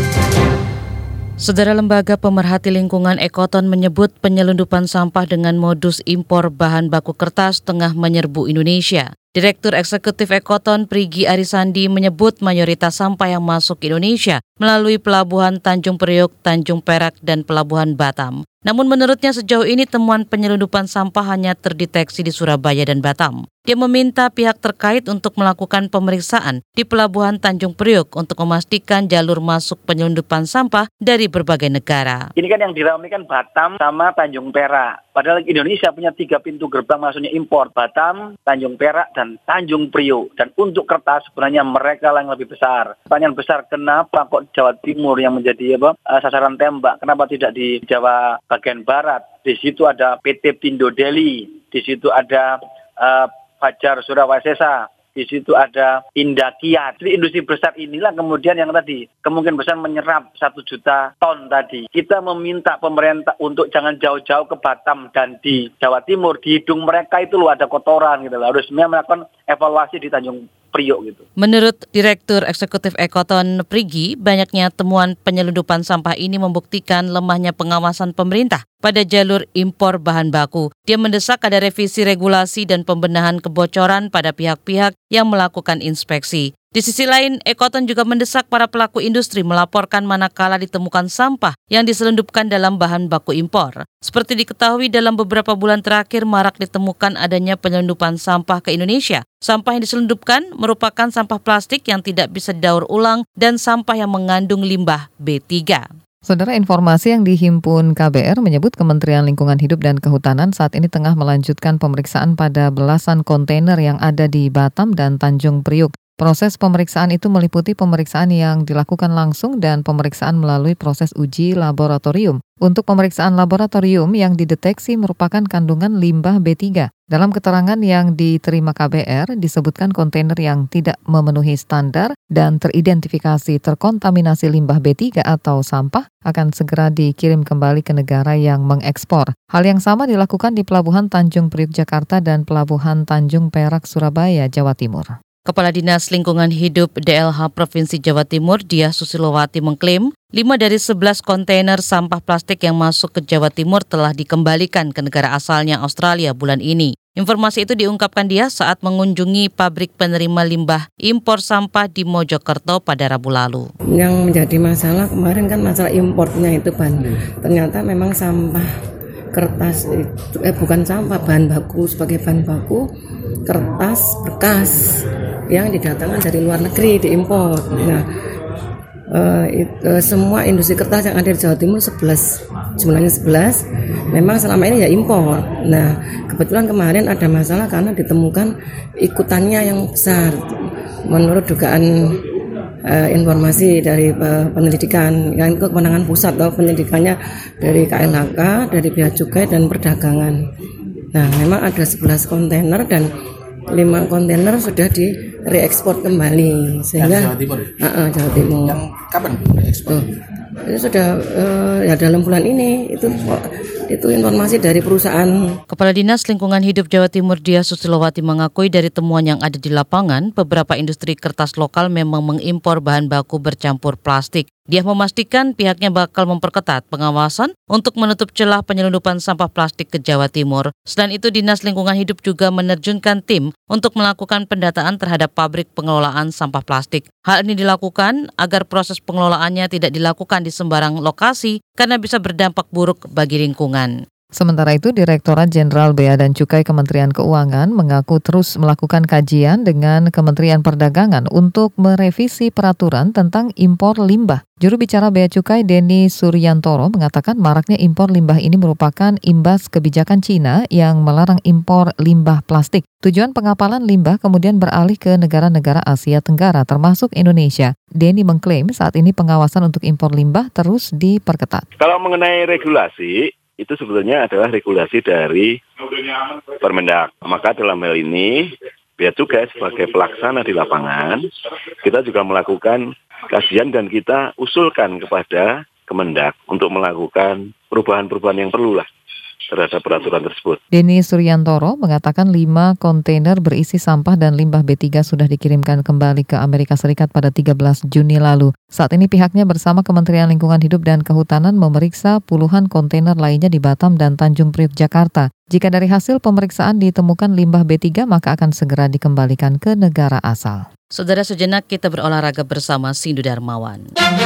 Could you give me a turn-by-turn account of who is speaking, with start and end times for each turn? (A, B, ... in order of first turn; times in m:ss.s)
0:01.4-0:32.3 A
0:32.4-1:11.2 B
1:11.4-1:45.8 A
1:46.2-2:25.1 C
2:25.5-2:43.7 A
2:43.9-2:48.7 D
2:49.3-2:52.9 D
2:53.4-2:58.1 D
2:59.1-3:10.6 D
3:11.1-3:12.2 D
3:12.9-3:20.4 D
3:21.1-3:23.1 D
3:23.7-3:29.0 D
3:27.0-3:27.7 E
3:28.6-3:30.0 E
3:29.8-3:30.1 D
3:30.6-3:35.5 D
3:35.7-4:03.9 A
4:04.4-4:31.6 C
4:31.8-4:41.2 F
4:41.8-4:48.9 F
4:49.5-4:50.6 F
4:50.7-5:10.6 C
5:10.9-5:13.8 A